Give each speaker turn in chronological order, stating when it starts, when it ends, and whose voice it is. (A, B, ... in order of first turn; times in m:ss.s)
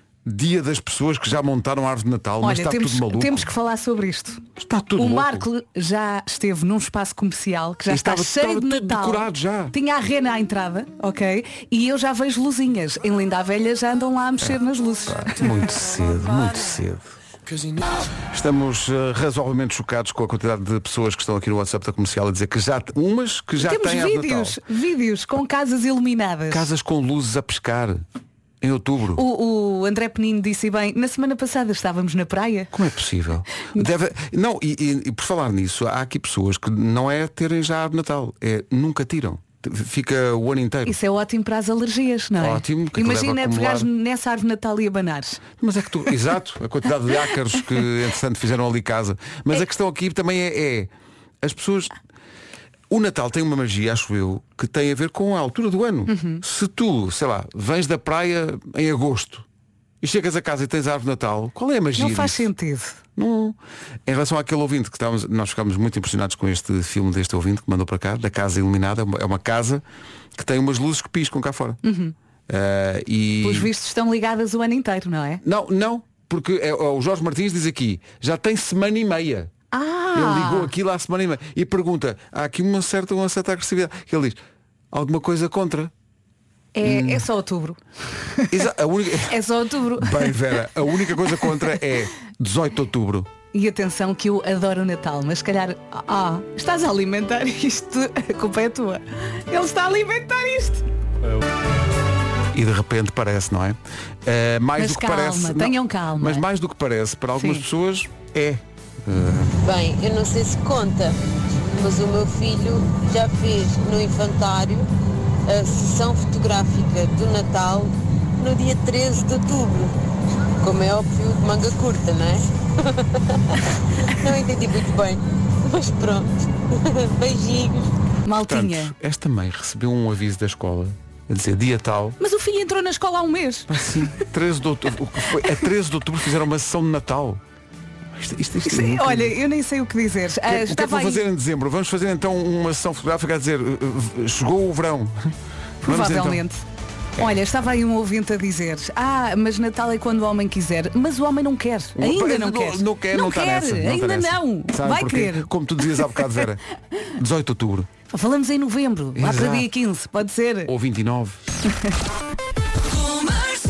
0:00.2-0:03.5 A
0:02.4-0:04.4 B
0:04.6-0:05.5 A
0:05.0-0:15.6 B
0:07.9-0:09.8 A
0:14.4-0:17.1 A
0:18.3-0:24.6 A
0:23.6-0:26.7 B
0:26.5-0:28.0 A
0:28.6-0:29.2 A
0:29.2-0:32.7 B
0:32.7-0:41.0 A
0:40.9-0:45.4 B
0:42.4-0:43.9 A
0:45.6-0:50.9 A
0:51.4-0:51.9 A
0:52.9-0:59.5 A
0:56.1-0:56.4 B
1:00.0-1:02.5 A
1:02.0-1:03.0 B
1:03.2-1:09.8 A
1:10.4-1:11.8 A
1:11.8-1:12.2 B
1:12.5-1:13.7 A
1:13.4-1:15.4 B
1:15.4-1:19.6 A
1:19.7-1:20.7 B
1:20.1-1:24.4 A
1:24.9-1:25.9 A
1:26.8-1:27.8 B
1:26.8-1:27.3 A
1:28.5-1:29.4 A
1:29.3-1:30.4 B
1:30.0-1:33.3 A
1:33.5-1:40.8 B
1:42.5-1:49.6 A
1:44.8-1:46.4 B
1:47.4-1:47.7 B
1:49.6-1:54.9 C
1:55.5-1:59.9 C
2:00.6-2:03.6 C
2:04.1-2:07.9 C
2:08.3-2:08.9 B
2:08.4-2:12.2 A
2:12.2-2:14.2 B
2:13.7-2:17.4 A
2:18.2-2:19.4 A
2:18.6-2:21.2 B
2:20.4-2:26.4 A
2:25.8-2:26.6 B
2:27.2-2:36.2 B
2:32.0-2:36.6 A
2:37.2-2:37.9 A
2:38.1-2:40.7 B
2:39.2-2:39.7 A
2:40.7-2:41.4 A